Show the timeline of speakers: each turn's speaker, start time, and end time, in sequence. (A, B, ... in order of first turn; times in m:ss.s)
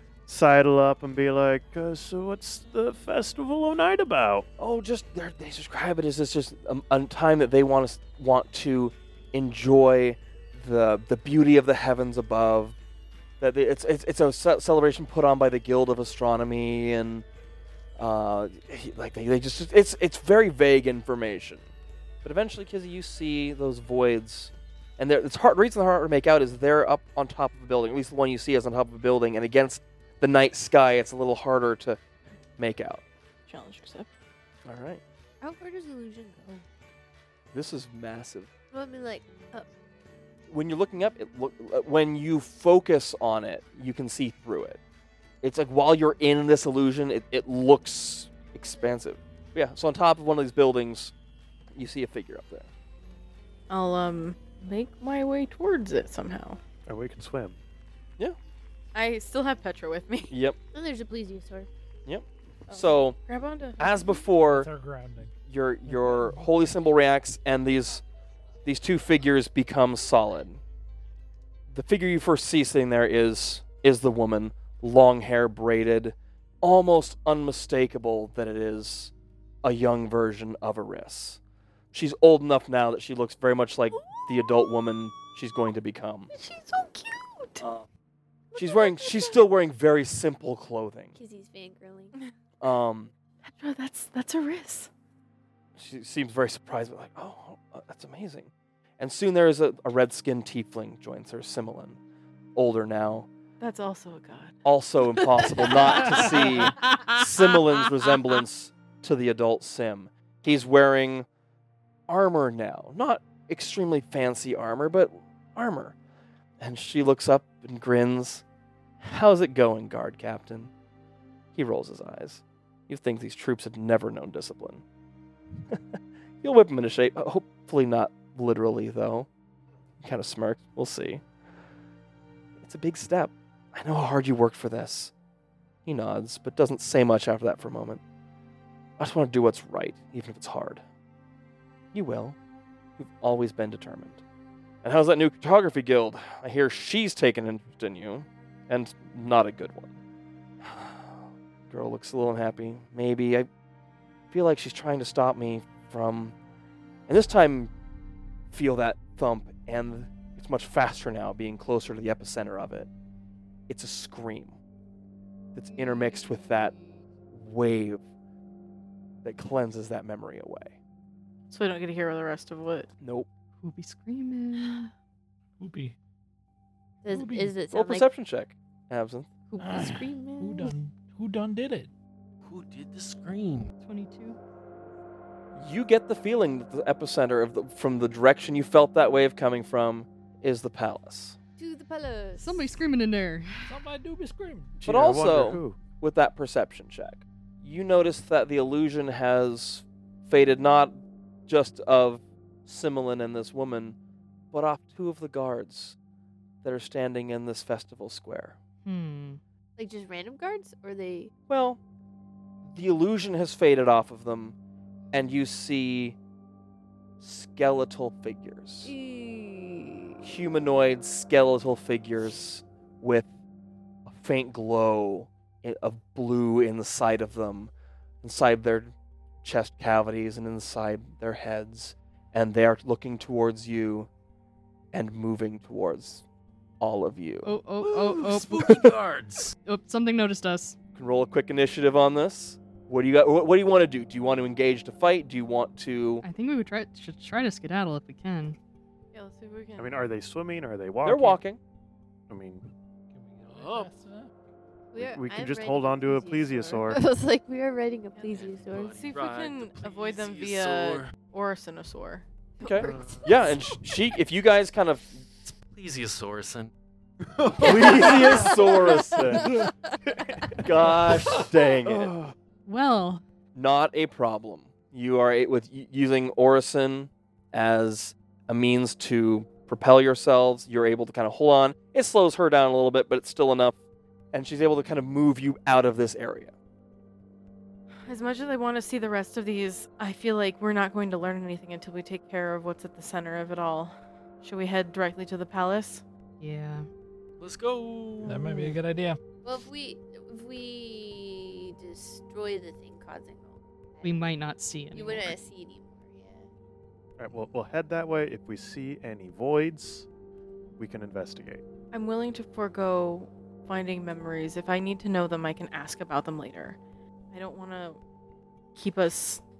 0:00.3-0:04.4 A
0:04.6-0:12.8 B
0:13.4-0:17.2 B
0:18.0-0:21.6 B
0:22.2-0:32.0 B
0:32.6-0:33.0 B
0:33.5-0:34.1 C
0:34.6-0:35.0 B
0:35.4-0:36.6 D
0:37.5-0:38.5 B
0:38.7-0:39.7 D
0:40.5-0:44.8 B
0:45.4-0:51.1 B
0:51.7-0:52.7 B
0:53.7-0:56.6 C
0:56.8-0:57.6 A
0:58.9-1:00.3 C
1:00.3-1:00.6 B
1:00.7-1:01.7 D
1:02.0-1:03.2 B
1:02.7-1:04.3 C
1:03.8-1:04.7 B
1:04.5-1:05.3 E
1:05.4-1:08.0 B
1:05.9-1:06.5 E
1:08.6-1:10.6 B
1:11.7-1:19.1 B
1:19.6-1:21.4 B
1:21.9-1:26.3 B
1:26.3-1:27.6 C
1:27.6-1:27.8 B
1:28.5-1:29.4 C
1:28.6-1:31.1 B
1:31.1-1:32.1 D
1:32.6-1:33.1 B
1:33.4-1:34.9 C
1:35.8-1:42.0 B
1:42.5-1:43.3 B
1:43.6-1:44.6 C
1:44.6-1:51.3 B
1:45.4-1:46.4 C
1:46.7-1:47.2 F
1:52.1-1:55.9 B
1:56.6-1:58.4 B
1:59.0-2:00.7 B
2:01.5-2:04.8 B
2:05.7-2:09.3 B
2:10.0-2:11.2 B
2:12.6-2:15.1 B
2:15.8-2:18.0 B
2:19.0-2:20.8 B
2:21.9-2:22.4 B
2:23.0-2:24.2 B
2:24.8-2:30.0 B
2:30.6-2:33.5 B
2:34.3-2:36.3 B
2:37.1-2:37.7 B
2:38.5-2:42.9 B
2:43.7-2:44.6 B
2:45.5-2:46.8 B
2:47.3-2:48.0 B
2:49.2-2:50.8 B
2:51.5-2:52.9 C
2:53.0-2:53.3 B
2:53.6-2:54.9 F
2:55.6-2:55.9 E
2:57.0-2:58.1 D
2:57.1-2:57.5 E
2:57.7-2:59.3 B
2:59.5-3:00.7 D
2:59.6-3:01.9 E
3:02.4-3:03.7 G
3:03.8-3:04.4 F
3:05.6-3:11.4 B
3:11.6-3:12.7 D
3:12.4-3:13.8 F
3:13.7-3:14.8 E
3:14.8-3:15.8 A
3:14.8-3:24.0 B
3:24.5-3:26.0 B
3:26.6-3:28.6 B
3:28.8-3:29.4 F
3:29.8-3:31.3 D
3:31.5-3:31.8 B
3:32.7-3:34.6 B
3:35.1-3:36.2 B
3:37.2-3:38.9 B
3:38.8-3:40.3 D
3:40.2-3:43.3 B
3:44.0-3:47.7 B
3:48.2-3:54.1 B
3:54.9-3:56.2 B
3:56.8-3:57.5 B
3:57.4-3:59.0 F
3:57.8-3:59.6 G
3:59.5-4:00.8 F
4:00.9-4:06.2 B
4:06.2-4:08.6 F
4:09.1-4:10.1 C
4:09.8-4:11.4 A
4:11.0-4:11.6 B
4:12.3-4:12.6 A
4:13.1-4:14.3 E
4:13.5-4:13.9 G
4:14.9-4:19.0 D
4:14.9-4:17.0 A
4:18.1-4:23.0 C
4:18.3-4:21.1 G
4:22.6-4:25.5 B
4:25.7-4:26.7 G
4:27.3-4:32.3 A
4:27.6-4:29.5 B
4:30.6-4:32.1 B
4:32.6-4:33.2 F
4:33.5-4:43.8 B
4:44.3-4:46.5 B
4:48.0-4:56.0 C
4:56.4-4:56.9 F
4:57.4-4:58.6 G
4:58.2-4:59.2 E
4:58.4-4:58.8 F
4:59.4-5:04.2 D
5:04.0-5:05.4 F
5:04.9-5:06.5 D
5:07.2-5:10.1 A
5:10.8-5:11.6 A
5:11.9-5:16.8 C
5:17.3-5:18.0 C
5:18.7-5:19.4 C